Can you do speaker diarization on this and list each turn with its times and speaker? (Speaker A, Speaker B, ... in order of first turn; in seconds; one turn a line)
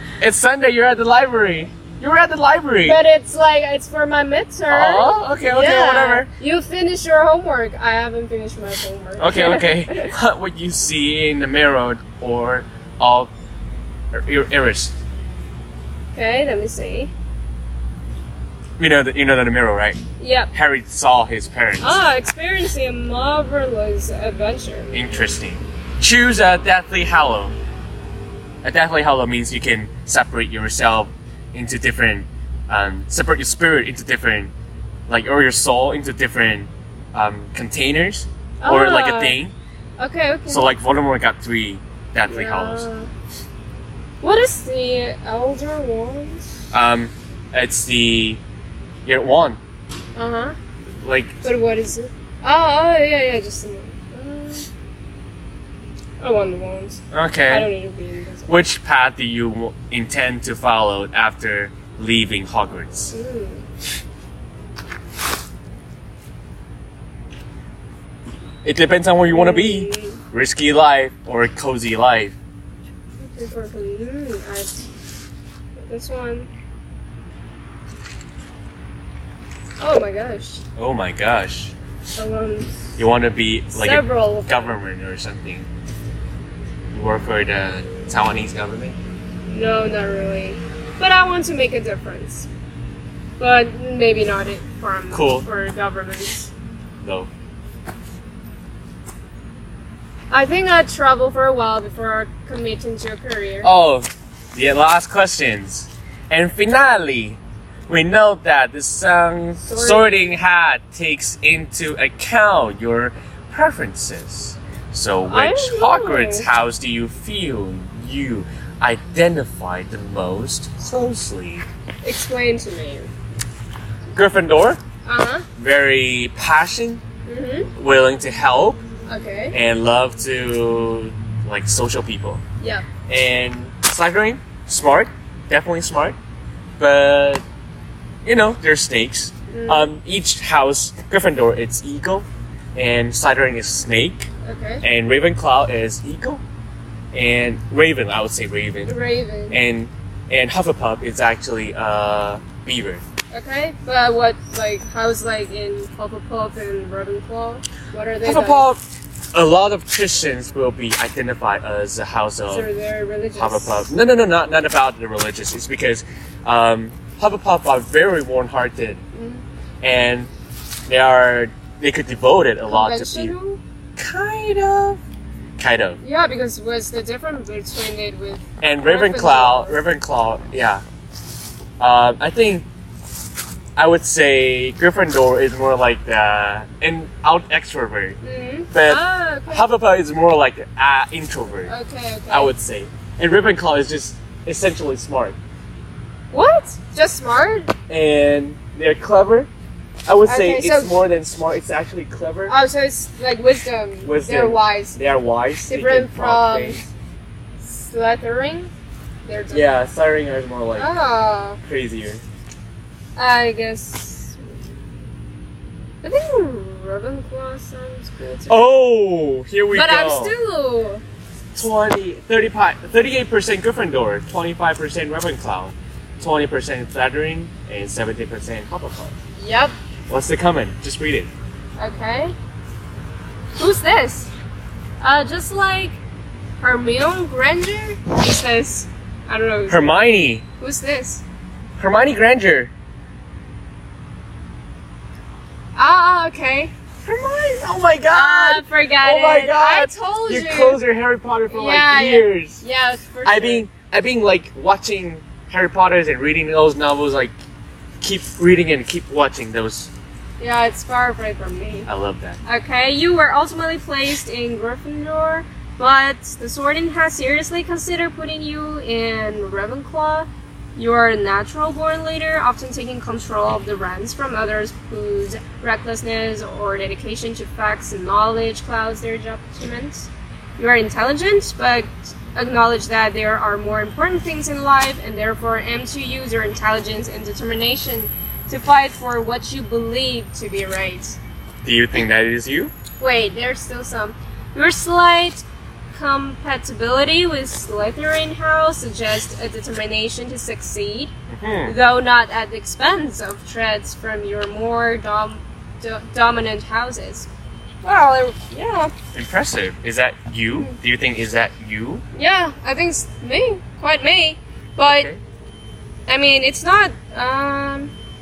Speaker A: 0.2-3.0
Speaker B: 2.8-10.1
Speaker A: 4.7-6.3
Speaker A: 9.2-13.3
Speaker A: 14.1-14.9
Speaker B: 16.1-17.1
Speaker A: 18.8-20.0
Speaker B: 20.2-20.5
Speaker A: 20.5-22.0
Speaker B: 21.8-25.1
Speaker A: 24.9-27.6
Speaker A: 28.6-34.5
Speaker A: 35.1-39.5
Speaker B: 38.6-39.4
Speaker B: 40.0-40.7
Speaker A: 40.5-42.9
Speaker B: 42.2-43.1
Speaker B: 44.2-46.5
Speaker A: 46.7-48.4
Speaker A: 49.0-49.6
Speaker B: 50.1-50.5
Speaker A: 51.0-51.4
Speaker B: 51.4-54.7
Speaker B: 56.2-58.5
Speaker A: 57.1-57.7
Speaker A: 58.5-63.1
Speaker B: 63.1-63.6
Speaker A: 68.6-72.3
Speaker B: 69.3-70.2
Speaker B: 73.2-74.8
Speaker B: 75.8-76.5
Speaker B: 79.8-80.6
Speaker A: 80.8-81.7
Speaker B: 82.2-82.8
Speaker A: 83.0-85.7
Speaker B: 83.7-84.8
Speaker A: 86.9-89.0
Speaker B: 89.5-92.5
Speaker B: 93.4-96.5
Speaker A: 95.1-95.5
Speaker A: 97.0-97.3
Speaker B: 100.3-103.7
Speaker A: 103.6-121.7
Speaker B: 109.7-110.4
Speaker B: 115.3-116.5
Speaker B: 122.0-123.1
Speaker A: 124.1-124.8
Speaker B: 125.0-125.5
Speaker A: 125.5-127.0
Speaker B: 127.2-127.7
Speaker A: 127.7-128.8
Speaker B: 129.1-129.6
Speaker A: 129.5-132.4
Speaker B: 132.6-132.8
Speaker A: 133.1-136.2
Speaker A: 136.8-137.4
Speaker A: 138.2-144.3
Speaker B: 139.5-139.9
Speaker B: 144.4-144.8
Speaker A: 144.8-146.4
Speaker A: 147.1-148.9
Speaker B: 148.9-149.6
Speaker A: 149.5-153.0
Speaker B: 153.3-158.7
Speaker A: 158.2-158.8
Speaker A: 159.3-162.7
Speaker B: 162.5-163.9
Speaker A: 163.4-169.0
Speaker B: 169.1-169.4
Speaker A: 169.8-170.3
Speaker A: 170.9-173.3
Speaker B: 172.7-173.6
Speaker A: 174.0-175.0
Speaker A: 175.6-176.0
Speaker B: 176.0-179.8
Speaker A: 178.6-180.8
Speaker A: 181.8-182.7
Speaker A: 183.8-188.2
Speaker B: 188.2-189.7
Speaker A: 188.7-191.7
Speaker B: 191.7-192.5
Speaker A: 192.3-195.3
Speaker B: 196.3-197.7
Speaker A: 197.9-199.5
Speaker A: 200.1-202.5
Speaker B: 200.2-200.9
Speaker B: 202.5-205.0
Speaker A: 204.0-206.9
Speaker B: 205.7-206.8
Speaker B: 207.6-208.7
Speaker B: 209.2-209.7
Speaker A: 209.5-210.9
Speaker B: 210.8-211.6
Speaker A: 211.6-212.2
Speaker B: 213.2-214.4
Speaker B: 216.0-218.8
Speaker A: 218.5-220.3
Speaker B: 219.7-221.0
Speaker A: 221.5-229.1
Speaker B: 229.4-229.7
Speaker A: 230.1-231.3
Speaker B: 231.8-232.3
Speaker B: 233.6-234.3
Speaker B: 235.0-236.0
Speaker B: 236.6-240.0
Speaker A: 239.7-240.4
Speaker B: 240.6-241.2
Speaker A: 241.8-242.7
Speaker B: 245.8-246.7
Speaker A: 247.0-252.6
Speaker B: 248.1-250.8
Speaker B: 251.5-253.7
Speaker A: 253.2-257.3
Speaker A: 258.0-259.9
Speaker B: 260.4-261.9
Speaker A: 261.9-262.4
Speaker B: 262.4-291.2
Speaker A: 291.6-292.7
Speaker B: 293.0-301.1
Speaker A: 301.3-301.8
Speaker B: 301.6-307.3
Speaker B: 307.8-308.9
Speaker A: 309.1-312.0
Speaker B: 312.1-315.1
Speaker A: 314.8-315.2
Speaker B: 316.1-317.9